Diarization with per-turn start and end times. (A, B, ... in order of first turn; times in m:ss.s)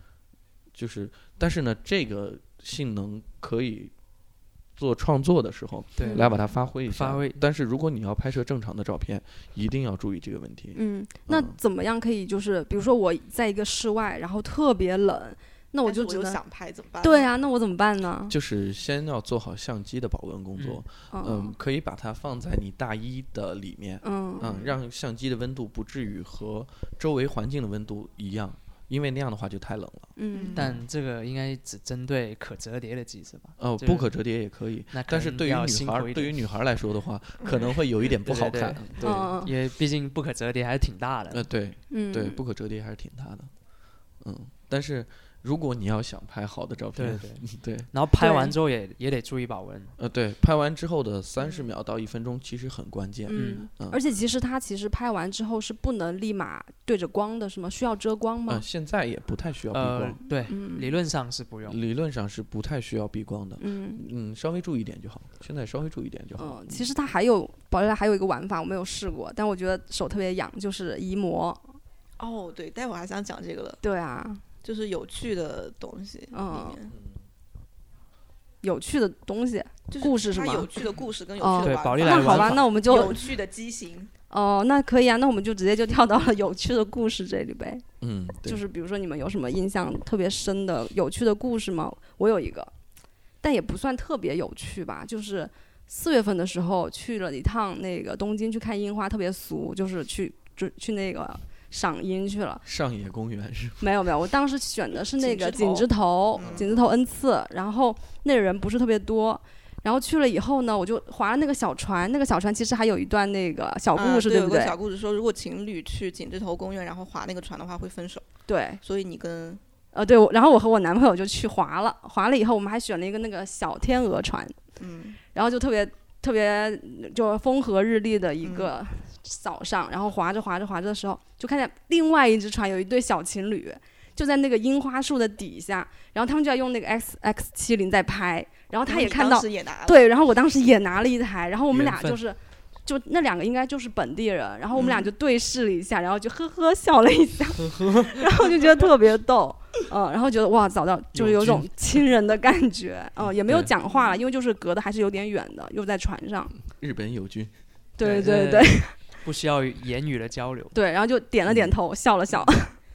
0:00.7-0:03.9 A
0:04.8-0:11.6 A
0:06.0-0:06.4 B
0:06.0-0:06.3 C
0:06.9-0:07.4 B
0:10.7-0:16.4 C
0:15.8-0:17.3 D
0:17.0-0:18.3 C
0:18.3-0:30.8 A
0:20.6-0:20.8 B
0:21.1-0:21.5 C
0:24.0-0:24.5 C
0:24.4-0:24.8 D
0:30.2-0:30.6 C
0:30.3-0:30.8 D
0:30.5-0:34.1 B
0:33.6-0:39.4 A
0:34.9-0:36.4 B
0:37.4-0:37.7 D
0:38.0-0:41.4 B
0:39.0-0:39.5 C
0:41.3-0:43.5 A
0:41.9-0:42.4 C
0:44.2-0:47.9 A
0:46.9-0:49.9 B
0:48.2-0:48.5 C
0:50.0-0:54.0 A
0:53.3-0:58.6 C
0:53.3-0:53.6 B
0:58.5-1:00.2 A
0:59.7-1:01.8 B
1:00.5-1:00.9 C
1:01.6-1:06.9 A
1:03.6-1:04.0 C
1:06.4-1:11.7 C
1:12.2-1:13.8 D
1:13.8-1:14.4 C
1:14.6-1:16.9 D
1:16.3-1:16.8 C
1:16.9-1:17.2 A
1:18.6-1:20.8 C
1:19.9-1:24.1 D
1:21.4-1:23.3 C
1:21.6-1:22.7 B
1:24.3-1:27.8 C
1:28.0-1:28.6 A
1:28.4-1:32.7 C
1:33.4-1:42.6 C
1:42.6-1:44.1 A
1:43.8-1:54.8 C
1:45.2-1:46.7 D
1:46.4-1:46.8 A
1:53.9-1:58.3 D
1:58.5-1:58.8 C
1:58.8-1:59.6 D
1:59.9-2:04.6 C
2:04.8-2:05.2 D
2:05.3-2:36.6 C
2:08.4-2:08.7 D
2:18.8-2:20.0 D
2:21.7-2:22.2 B
2:24.7-2:25.1 D
2:31.2-2:31.6 B
2:31.2-2:31.6 A
2:33.2-2:33.7 A
2:33.9-2:34.2 D
2:36.6-2:37.5 A
2:38.0-2:39.0 C
2:38.0-2:40.7 B
2:40.7-2:42.7 C
2:41.5-2:41.8 A